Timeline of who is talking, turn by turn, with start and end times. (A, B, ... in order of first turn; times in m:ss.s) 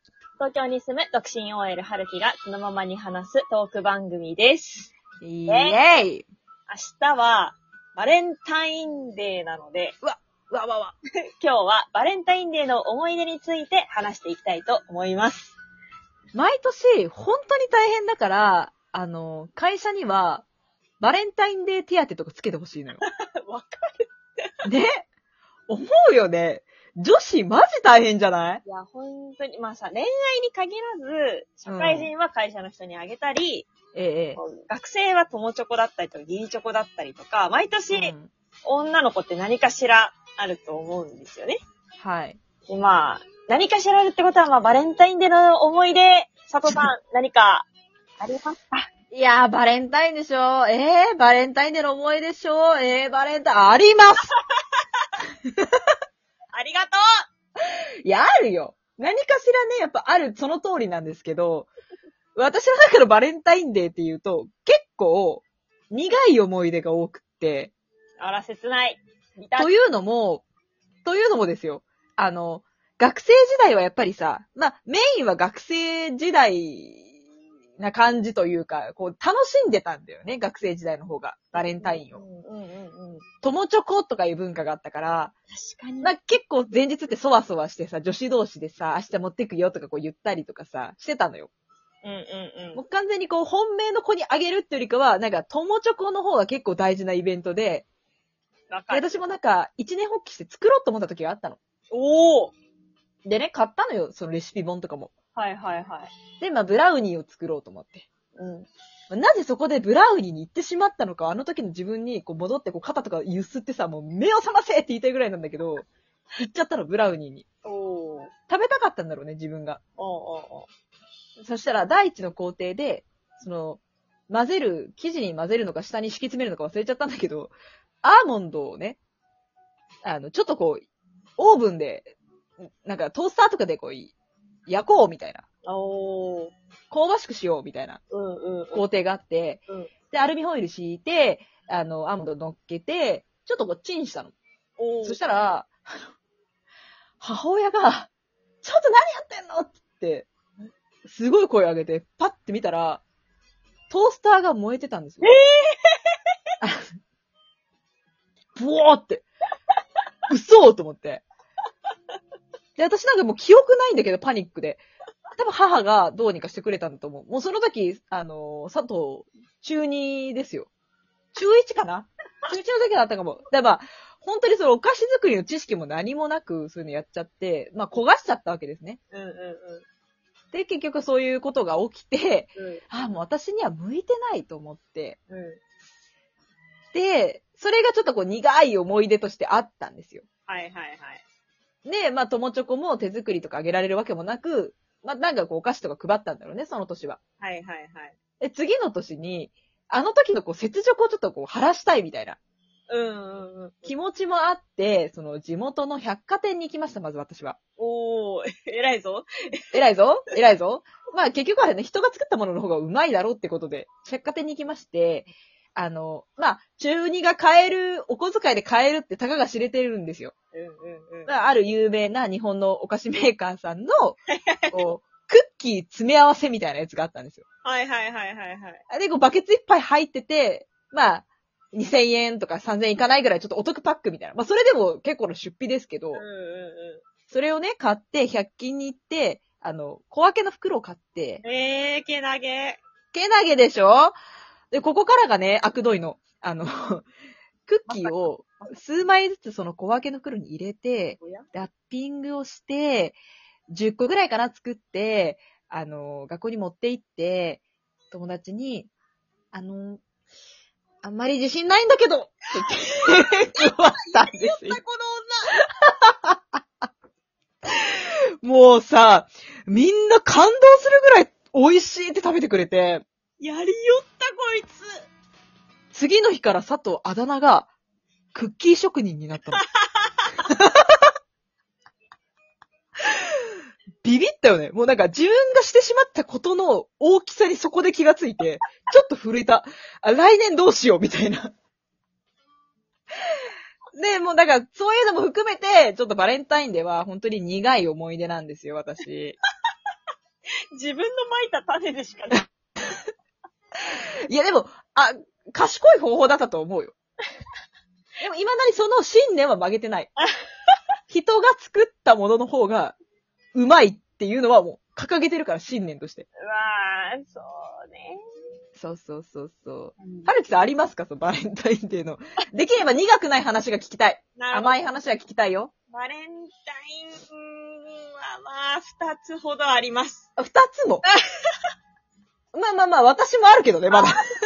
0:00.4-0:04.9 A
0:05.2-0:06.2 B
0:05.5-0:05.8 A
0:06.7-0:10.0 A
0:10.0-0:10.9 B
0:11.4-0:15.5 A
0:16.3-0:20.4 B
0:21.0-0:23.0 B
0:23.0-0:24.1 A
0:24.6-0:25.0 B
0:25.7-0:28.6 B
0:28.6-0:33.7 A
0:31.6-0:32.1 B
0:33.9-0:34.4 B
0:34.4-0:38.1 A
0:37.9-0:38.3 B
0:38.6-0:41.6 A
0:42.0-0:42.4 B
0:42.7-0:47.7 A
0:48.2-0:48.8 A
0:49.1-0:54.3 B
0:56.5-0:57.0 A
0:58.0-1:01.7 B
1:02.4-1:07.7 B
1:08.2-1:09.8 A
1:09.6-1:10.4 B
1:11.0-1:17.1 B
1:17.8-1:22.2 B
1:21.5-1:23.2 A
1:23.4-1:25.3 B
1:25.5-1:26.1 A
1:26.0-1:31.5 B
1:32.0-1:32.8 A
1:32.7-1:37.8 B
1:38.7-1:39.2 A
1:38.9-1:41.6 B
1:41.9-1:42.5 A
1:43.2-1:45.1 B
1:45.3-1:46.1 A
1:46.4-1:48.0 B
1:48.4-1:48.7 A
1:49.1-1:57.4 B
1:57.6-1:58.3 A
1:58.5-1:59.8 B
2:00.0-2:00.7 A
2:01.4-2:09.0 B
2:10.0-2:10.8 B
2:11.4-2:12.1 B
2:12.8-2:14.1 B
2:14.7-2:15.4 B
2:15.6-2:16.5 A
2:16.9-2:18.0 B
2:18.1-2:18.8 A
2:18.7-2:24.3 B
2:24.8-2:25.2 A
2:25.0-2:25.8 B
2:27.2-2:28.1 B
2:28.6-2:30.3 B
2:31.0-2:33.0 B
2:33.9-2:35.3 B
2:35.2-2:36.0 A
2:36.6-2:36.9 B
2:38.5-2:39.2 B
2:40.3-2:41.2 B
2:42.8-2:44.8 B
2:45.4-2:50.7 B
2:51.3-2:59.0 B
2:59.1-2:59.8 A
3:00.5-3:05.2 B
3:02.6-3:02.8 A
3:05.3-3:05.6 A
3:06.9-3:10.2 B
3:10.5-3:11.2 A
3:11.8-3:17.2 B
3:17.4-3:18.1 A
3:18.4-3:22.4 B
3:22.9-3:23.9 A
3:23.8-3:27.6 B
3:27.8-3:29.8 A
3:29.7-3:40.3 B
3:40.5-3:41.3 A
3:41.2-3:44.2 B
3:44.3-3:44.8 A
3:44.7-3:47.4 B
3:47.6-3:48.8 A
3:48.9-3:56.2 B
3:56.1-3:57.0 A
3:57.3-4:01.4 B
4:01.4-4:02.8 A
4:03.1-4:04.1 B
4:04.7-4:07.1 B
4:07.6-4:13.2 B
4:07.9-4:08.7 A
4:11.2-4:11.5 A
4:13.7-4:18.9 B
4:19.5-4:20.0 B
4:21.0-4:24.8 B
4:22.6-4:25.5 A
4:25.8-4:26.4 B
4:27.8-4:33.0 B
4:33.4-4:35.0 A
4:35.9-4:37.7 B
4:38.3-4:39.6 B
4:39.6-4:39.9 A
4:40.4-4:41.0 B
4:44.0-4:51.5 B
4:53.9-4:59.4 B
5:00.7-5:02.5 A
5:04.3-5:06.9 B
5:08.2-5:10.1 B
5:11.1-5:13.0 B
5:13.5-5:16.3 B
5:16.4-5:18.2 A
5:18.8-5:25.7 B
5:20.0-5:20.3 A
5:24.4-5:24.8 A
5:25.9-5:30.3 A
5:30.4-5:31.0 B
5:32.5-5:34.3 B